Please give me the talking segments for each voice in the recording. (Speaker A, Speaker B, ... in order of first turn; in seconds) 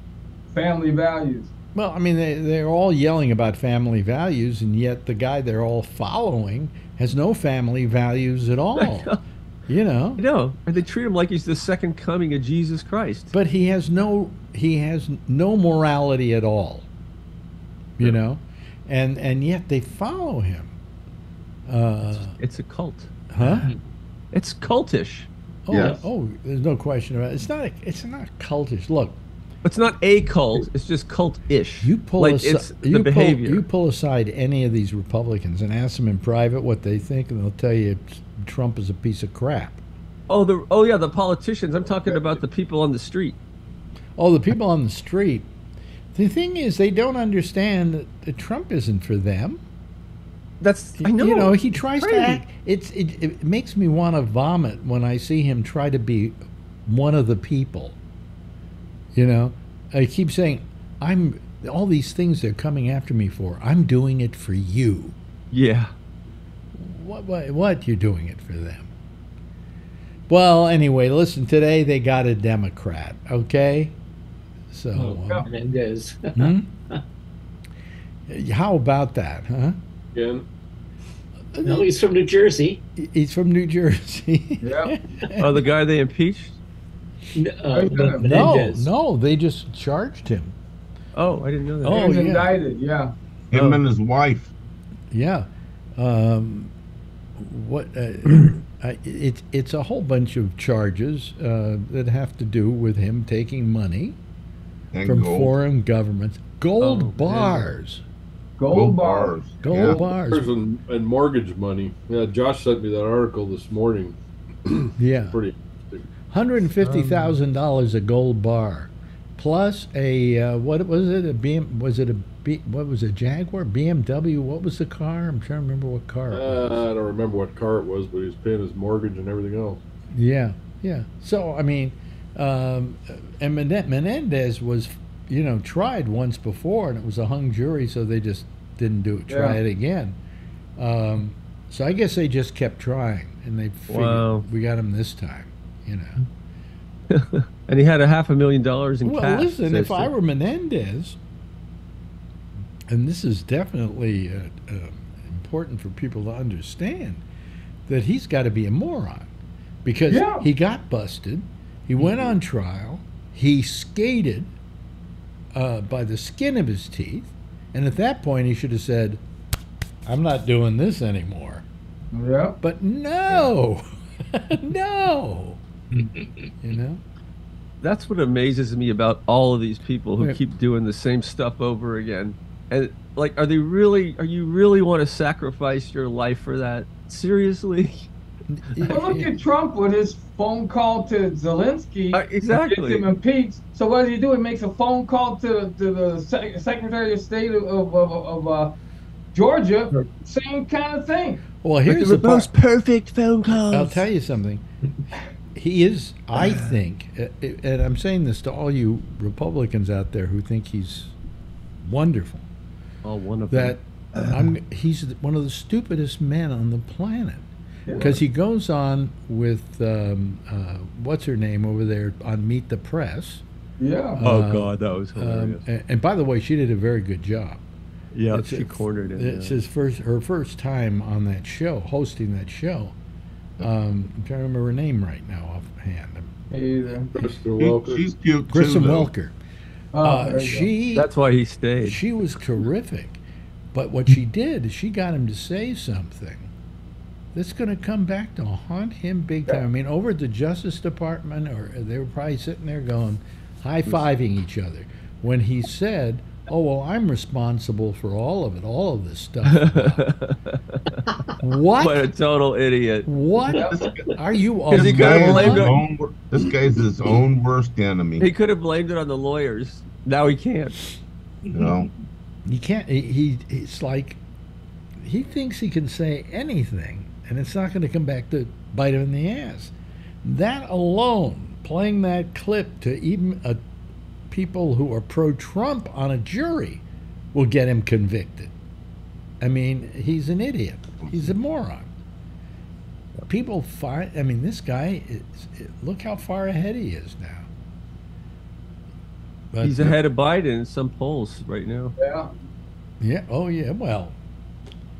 Speaker A: 0.5-1.5, 84.6-84.9, 87.7-88.4, 91.9-93.1, 108.6-109.4, 139.3-139.6, 160.1-160.4, 172.1-172.6, 188.8-198.7, 199.3-201.4, 217.9-218.2, 223.8-224.2, 236.5-237.1, 239.9-240.7, 302.0-302.3
Speaker B: 1.7-10.2, 13.3-16.9, 18.0-20.7, 21.6-22.4, 23.3-23.7, 25.6-29.2, 31.8-39.8, 44.2-45.5, 46.1-49.6, 51.0-58.0, 59.1-65.2, 66.7-68.9, 70.3-74.0, 74.7-75.5, 76.3-76.7, 78.3-79.8, 81.5-81.9, 83.0-85.7, 88.2-90.5, 91.8-92.5, 93.5-93.8, 95.1-96.7, 97.4-104.2, 105.0-108.0, 109.6-110.5, 115.0-115.4, 116.3-126.9, 130.1-140.2, 140.8-146.2, 149.0-151.2, 152.9-157.2, 157.9-159.3, 159.8-164.5, 165.5-169.2, 170.1-171.6, 172.6-177.0, 188.5-189.3, 201.6-202.5, 203.7-204.6, 205.5-211.1, 211.8-212.4, 213.5-223.4, 224.2-227.6, 228.3-232.9, 233.6-236.3, 238.5-239.3, 240.0-241.1, 241.8-243.2, 243.7-246.5, 247.3-260.0, 261.4-262.1, 263.0-265.8, 272.4-274.2, 275.0-283.6, 284.3-288.5, 289.4-291.9, 293.3-297.5, 299.5-300.0, 303.0-304.2
Speaker C: 8.8-9.2, 10.2-13.3, 22.1-23.7, 24.3-25.3, 29.6-33.6, 40.3-43.4, 50.6-52.4, 65.5-65.9, 85.4-86.6, 91.1-92.0, 106.8-107.7, 116.8-117.4, 143.9-144.4, 147.1-150.1, 177.8-188.1, 192.1-193.0, 201.8-204.0, 213.0-213.8, 224.2-225.6, 228.1-229.6, 240.9-242.0, 259.4-260.8, 261.8-263.1, 264.7-265.8, 268.2-270.8, 299.6-301.9
Speaker D: 25.7-26.0, 93.5-94.5, 104.9-105.5, 108.7-110.0, 237.2-239.1, 263.7-264.1, 264.7-268.3, 271.5-271.9
Speaker E: 25.7-26.0, 75.4-77.0, 81.6-82.8, 87.3-88.9
Speaker F: 80.1-80.4, 109.9-114.2, 114.7-116.1, 126.3-129.8, 237.2-238.1